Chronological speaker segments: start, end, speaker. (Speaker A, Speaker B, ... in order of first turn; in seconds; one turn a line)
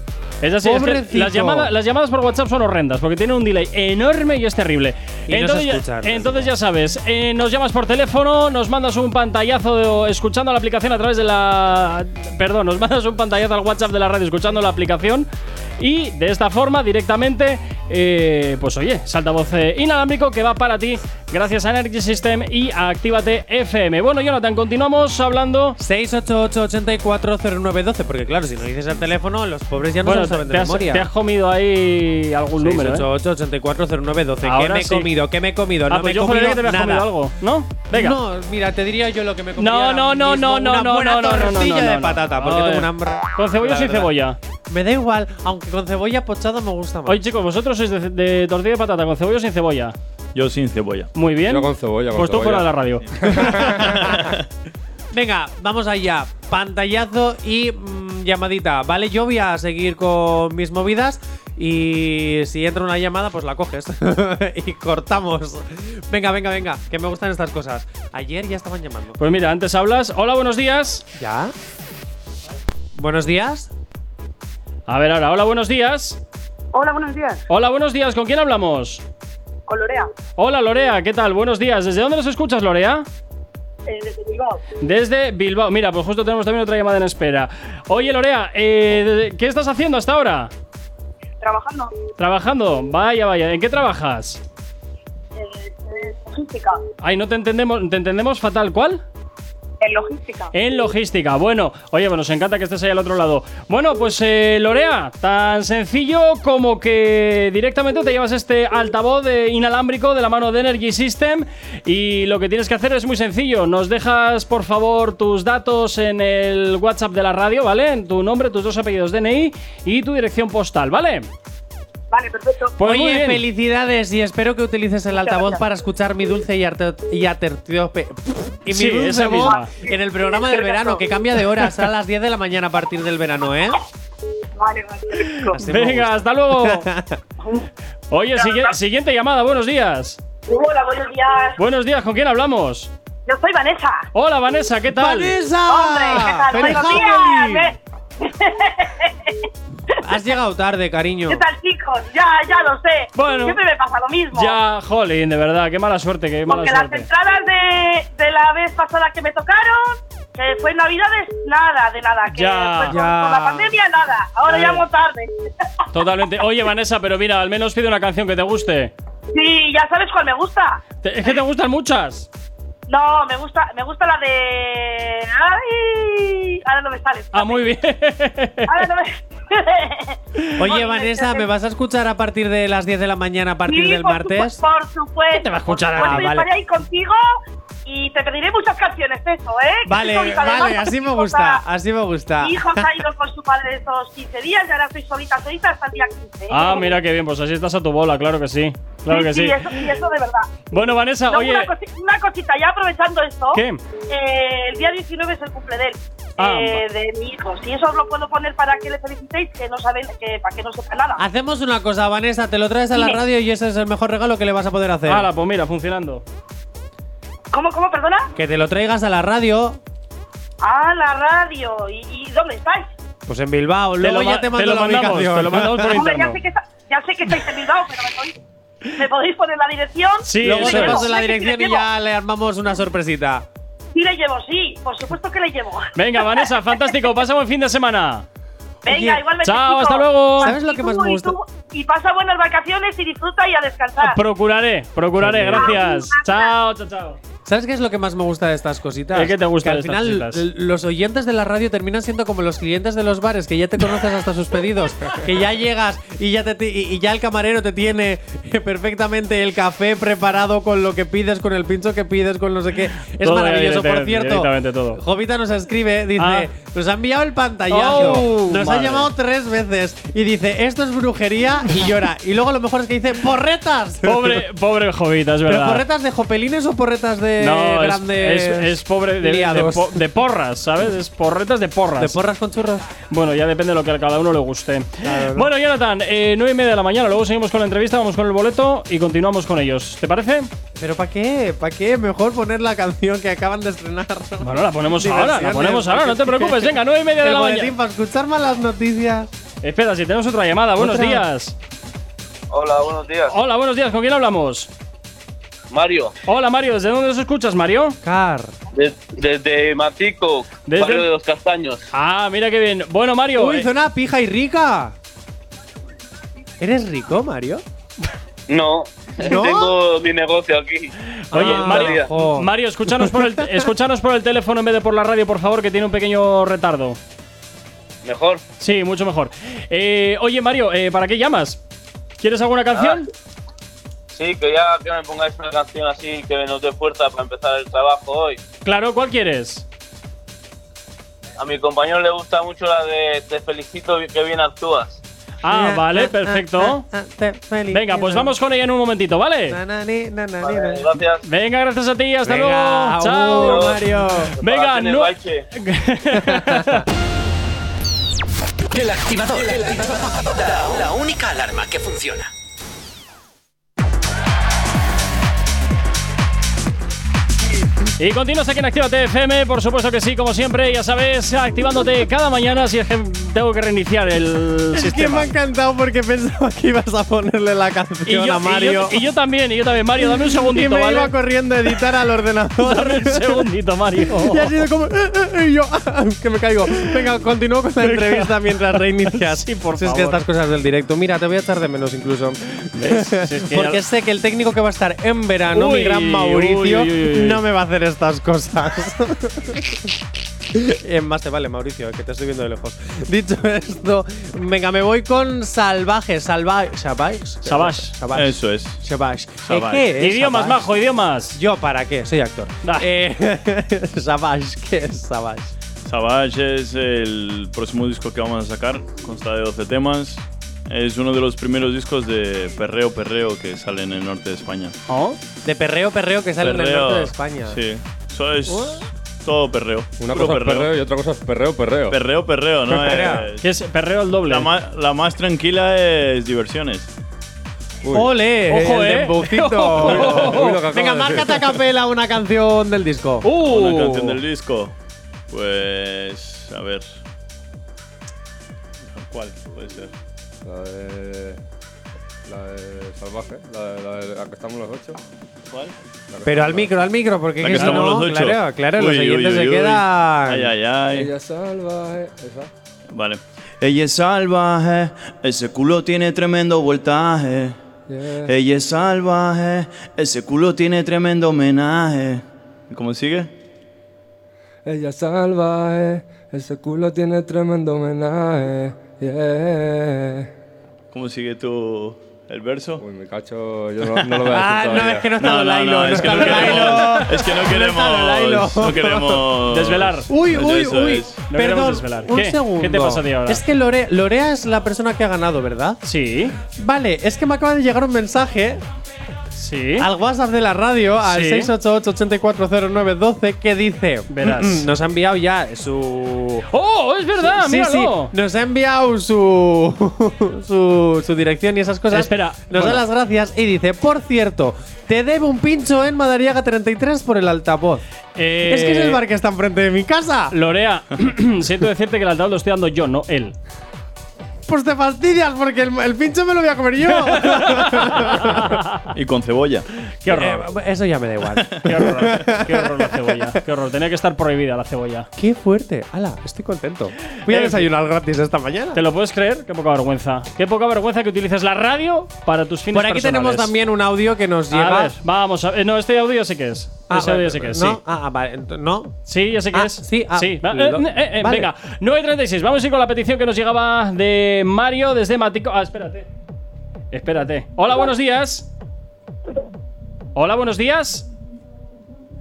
Speaker A: 0.4-15.3
Speaker B: 0.6-1.7
Speaker B: 5.3-6.5
Speaker A: 15.8-25.8
Speaker B: 25.8-31.1
Speaker A: 30.0-33.1
Speaker B: 32.6-37.1
Speaker A: 34.4-35.1
Speaker A: 35.9-38.2
Speaker B: 37.9-44.1
Speaker A: 39.6-44.4
Speaker B: 44.7-47.2
Speaker A: 47.0-50.0
Speaker C: 50.3-51.1
Speaker A: 51.1-53.1
Speaker D: 51.4-52.7
Speaker C: 53.1-54.4
Speaker D: 53.2-53.5
Speaker B: 53.3-54.2
Speaker B: 55.1-69.2
Speaker A: 69.2-71.0
Speaker B: 71.2-71.5
Speaker B: 73.0-73.7
Speaker A: 74.9-76.2
Speaker E: 76.7-77.4
Speaker A: 77.5-79.0
Speaker E: 79.7-80.1
Speaker A: 80.4-83.0
Speaker E: 83.9-84.6
Speaker A: 84.8-90.5
Speaker E: 91.4-91.9
Speaker A: 92.2-94.4
Speaker E: 95.3-96.8
Speaker A: 97.0-99.0
Speaker E: 99.8-100.5
Speaker A: 100.5-121.3
Speaker E: 122.1-122.8
Speaker A: 122.8-123.4
Speaker B: 122.8-133.8
Speaker E: 125.1-125.6
Speaker A: 128.7-129.7
Speaker E: 129.4-131.4
Speaker E: 134.6-135.6
Speaker A: 135.2-136.9
Speaker B: 135.5-137.2
Speaker A: 138.1-140.2
Speaker E: 138.3-138.8
Speaker E: 140.5-141.6
Speaker A: 141.6-142.9
Speaker E: 143.3-144.1
Speaker A: 144.1-145.4
Speaker B: 144.9-147.7
Speaker E: 145.7-149.3
Speaker A: 146.5-147.0
Speaker B: 150.0-151.4
Speaker E: 151.3-154.6
Speaker A: 153.1-153.6
Speaker A: 154.3-157.1
Speaker E: 156.5-165.3
Speaker A: 162.3-163.0
Speaker B: 162.9-163.7
Speaker A: 164.5-164.8
Speaker A: 165.9-168.9
Speaker E: 169.3-170.8
Speaker A: 171.0-172.3
Speaker E: 172.9-177.8
Speaker A: 177.3-178.9
Speaker E: 178.7-181.5
Speaker B: 180.6-184.6
Speaker E: 183.7-191.6
Speaker A: 185.3-186.3
Speaker B: 185.9-186.5
Speaker B: 189.8-192.9
Speaker E: 192.4-197.0
Speaker A: 196.5-199.9
Speaker E: 199.1-200.7
Speaker A: 200.7-201.7
Speaker E: 201.3-211.2
Speaker A: 203.5-203.8
Speaker A: 206.4-206.8
Speaker B: 211.2-215.3
Speaker E: 212.9-213.2
Speaker A: 215.1-216.2
Speaker E: 217.5-218.3
Speaker B: 218.3-219.8
Speaker E: 220.6-222.9
Speaker B: 223.2-226.0
Speaker A: 224.0-226.4
Speaker E: 225.9-228.3
Speaker E: 228.9-231.8
Speaker A: 230.2-231.1
Speaker B: 230.4-233.4
Speaker E: 233.9-237.0
Speaker A: 235.9-238.2
Speaker E: 238.8-244.2
Speaker B: 238.9-239.2
Speaker A: 239.4-240.6
Speaker B: 240.4-241.3
Speaker A: 244.0-247.2
Speaker B: 245.2-245.8
Speaker E: 245.6-246.5
Speaker B: 247.4-274.4
Speaker A: 249.1-250.4
Speaker A: 263.2-265.0
Speaker A: 266.2-266.5
Speaker A: 267.7-269.1
Speaker A: 274.0-275.8
Speaker B: 275.5-280.0
Speaker A: 277.4-282.1
Speaker B: 281.9-282.8
Speaker A: 283.1-290.5
Speaker B: 285.0-285.5
Speaker B: 290.8-299.3
Speaker A: 294.4-297.7
Speaker A: 299.6-301.5
Speaker B: 300.8-301.2
Speaker F: 302.5-303.4
Speaker A: 303.3-304.7
Speaker F: 305.7-306.1
Speaker A: 306.2-308.0
Speaker B: 308.0-308.5
Speaker F: 308.7-311.9
Speaker A: 310.6-311.1
Speaker A: 311.9-313.7
Speaker B: 313.4-314.9
Speaker B: 316.6-317.6
Speaker F: 318.5-322.1
Speaker B: 319.2-319.8
Speaker A: 321.3-327.0
Speaker B: 321.3-323.6
Speaker F: 328.0-328.4
Speaker A: 328.6-331.6
Speaker A: 332.2-333.1
Speaker F: 332.7-333.0
Speaker F: 334.1-338.4
Speaker A: 338.6-339.6
Speaker F: 341.4-345.0
Speaker A: 345.4-346.9
Speaker B: 345.4-348.3
Speaker A: 347.7-349.6
Speaker B: 349.5-350.9
Speaker F: 350.4-351.2
Speaker A: 351.2-353.8
Speaker B: 352.2-354.3
Speaker F: 353.4-353.8
Speaker A: 354.4-356.9
Speaker F: 354.4-355.4
Speaker B: 356.1-356.8
Speaker G: 358.7-362.3
Speaker A: 368.0-375.3
Speaker B: 374.7-379.0
Speaker A: 378.1-381.1
Speaker B: 380.0-383.4
Speaker A: 382.6-384.5
Speaker B: 384.1-399.9
Speaker A: 387.8-390.2
Speaker A: 392.7-393.8
Speaker A: 395.5-397.4
Speaker B: 400.5-410.6
Speaker A: 407.4-407.9
Speaker C: 408.1-408.8
Speaker C: 409.4-409.9
Speaker A: 410.0-411.4
Speaker B: 411.3-415.5
Speaker C: 415.8-424.7
Speaker A: 424.9-425.2
Speaker B: 425.4-427.6
Speaker C: 426.4-430.7
Speaker B: 428.5-428.8
Speaker D: 430.0-432.0
Speaker C: 431.9-433.4
Speaker B: 432.7-433.3
Speaker A: 433.4-434.5
Speaker C: 434.2-436.9
Speaker D: 437.8-438.1
Speaker B: 437.9-443.3
Speaker A: 438.5-440.6
Speaker D: 439.8-441.5
Speaker A: 443.2-444.2
Speaker C: 443.4-444.7
Speaker C: 445.3-446.8
Speaker C: 448.9-449.9
Speaker D: 450.4-451.4
Speaker D: 452.2-455.0
Speaker D: 456.1-456.7
Speaker B: 456.2-460.5
Speaker C: 457.4-461.1
Speaker A: 457.6-458.0
Speaker D: 460.9-462.5
Speaker C: 462.9-467.6
Speaker D: 467.9-468.3
Speaker C: 468.2-473.3
Speaker D: 474.6-480.3
Speaker C: 480.9-482.8
Speaker D: 482.8-485.1
Speaker B: 484.3-489.2
Speaker C: 484.8-491.2
Speaker A: 486.2-486.8
Speaker A: 489.5-490.1
Speaker B: 490.1-495.8
Speaker A: 491.3-493.4
Speaker A: 495.8-496.4
Speaker B: 496.4-498.6
Speaker A: 499.3-499.9
Speaker B: 499.8-506.4
Speaker A: 501.0-501.5
Speaker A: 504.1-504.6
Speaker A: 506.5-508.1
Speaker B: 507.1-517.8
Speaker A: 511.9-512.8
Speaker A: 518.2-519.0
Speaker B: 518.5-520.3
Speaker A: 520.3-523.3
Speaker B: 524.5-528.5
Speaker A: 527.0-528.8
Speaker C: 528.9-529.7
Speaker A: 530.0-530.5
Speaker B: 530.1-533.4
Speaker A: 531.6-535.1
Speaker B: 535.2-538.8
Speaker A: 537.2-537.7
Speaker A: 538.7-543.5
Speaker B: 542.7-544.9
Speaker A: 544.5-547.8
Speaker B: 546.9-549.0
Speaker A: 549.1-556.1
Speaker B: 549.5-551.5
Speaker A: 556.9-558.5
Speaker A: 560.1-561.1